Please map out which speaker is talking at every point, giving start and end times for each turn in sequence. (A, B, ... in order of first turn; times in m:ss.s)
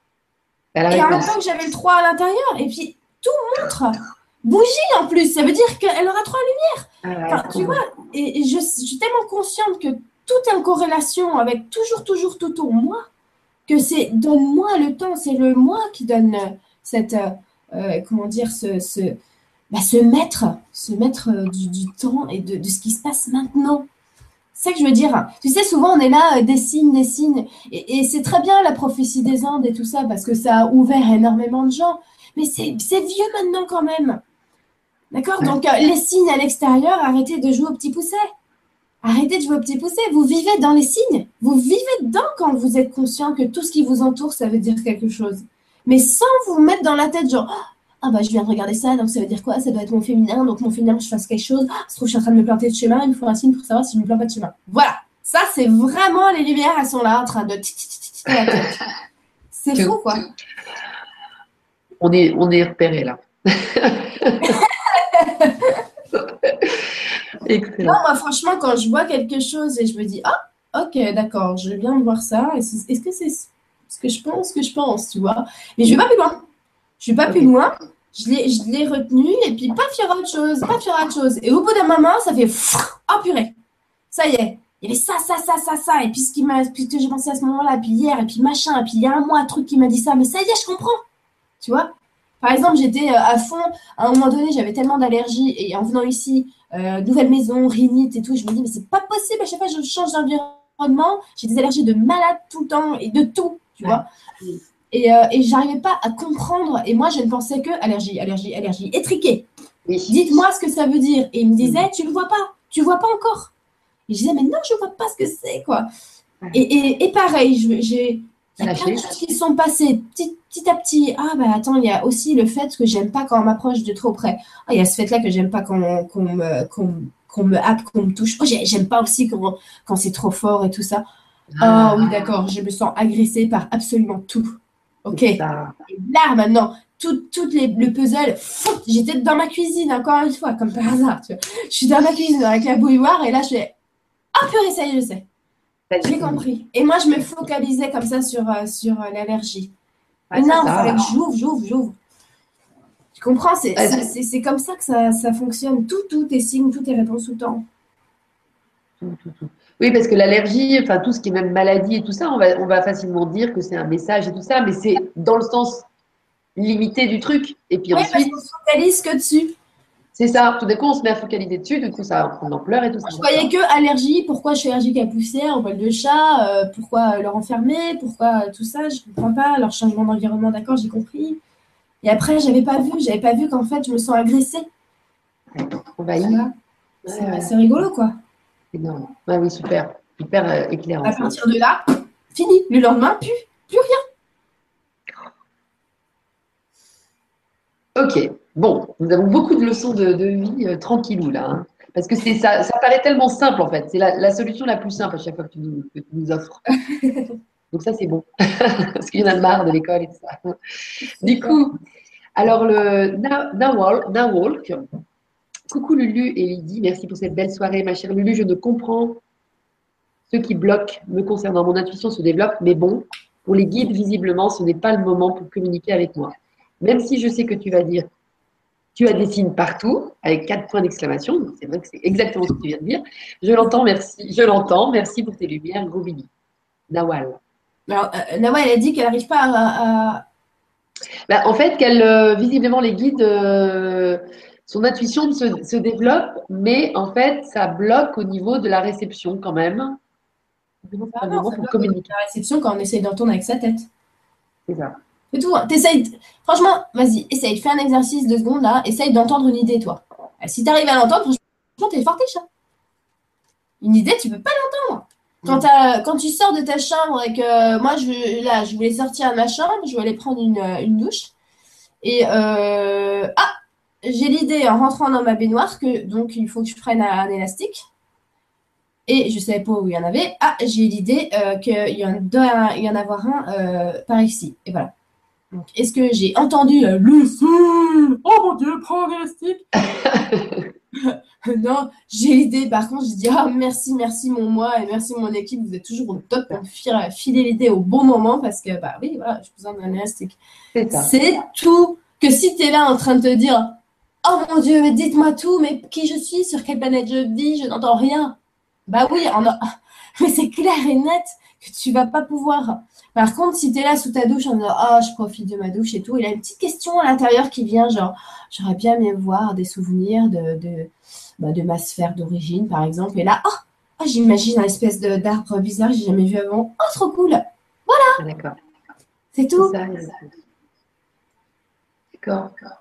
0:00.8-0:01.4 A
0:00.9-0:13.1 B
0:07.0-0:07.8 A
0:13.7-0:19.2 B
0:19.7-0:23.9 B
0:24.6-0:34.2 B
0:35.1-0:38.2 B
0:39.0-0:58.7 B
0:58.5-0:58.7 A
0:59.5-1:00.2 B
0:59.8-1:00.3 A
1:02.0-1:04.6 A
1:04.4-1:05.8 B
1:06.2-1:06.9 A
1:07.5-1:08.0 A
1:07.8-1:16.4 B
1:17.0-1:23.6 B
1:24.1-1:31.0 B
1:31.6-1:44.0 B
1:43.8-1:44.6 A
1:44.9-1:49.5 B
1:49.9-1:50.4 A
1:50.1-1:53.5 B
1:51.6-1:51.9 A
1:54.1-1:55.9 B
1:56.5-2:11.0 B
1:58.6-1:59.2 A
2:11.5-2:12.3 A
2:11.6-2:14.5 B
2:15.0-2:23.7 B
2:15.1-2:15.8 A
2:24.4-2:25.3 B
2:25.9-2:26.4 A
2:26.0-2:29.7 B
2:30.3-2:31.1 A
2:30.3-2:32.0 B
2:33.2-2:37.6 B
2:33.8-2:34.1 A
2:39.0-2:45.9 A
2:46.6-2:48.4 A
2:47.9-2:49.5 B
2:50.2-2:53.5 A
2:53.1-3:01.4 B
3:02.0-3:04.7 B
3:05.5-3:06.5 A
3:06.2-3:06.5 B
3:07.0-3:07.5 A
3:07.1-3:08.1 B
3:08.7-3:11.4 A
3:11.0-3:14.0 B
3:18.0-3:26.6 A
3:26.9-3:27.3 B
3:27.7-3:30.6 A
3:31.2-3:31.8 A
3:31.2-3:31.6 B
3:32.4-3:34.8 A
3:35.7-3:39.2 A
3:40.3-3:48.1 A
3:49.0-3:56.3 A
3:56.9-3:57.4 A
3:57.9-4:00.2 B
4:01.3-4:10.0 A
4:10.9-4:12.1 A
4:11.1-4:13.9 B
4:14.7-4:15.0 A
4:15.3-4:22.4 B
4:23.8-4:31.3 B
4:32.0-4:33.5 B
4:34.0-4:37.8 B
4:39.1-4:44.9 B
4:45.5-4:50.0 B
4:49.8-4:50.7 A
4:51.0-5:00.4 B
5:00.8-5:01.1 A
5:00.9-5:08.4 B
5:08.9-5:09.6 B
5:10.2-5:28.2 B
5:28.2-5:28.6 A
5:29.3-5:29.7 B
5:29.6-5:30.3 A
5:32.2-5:32.5 A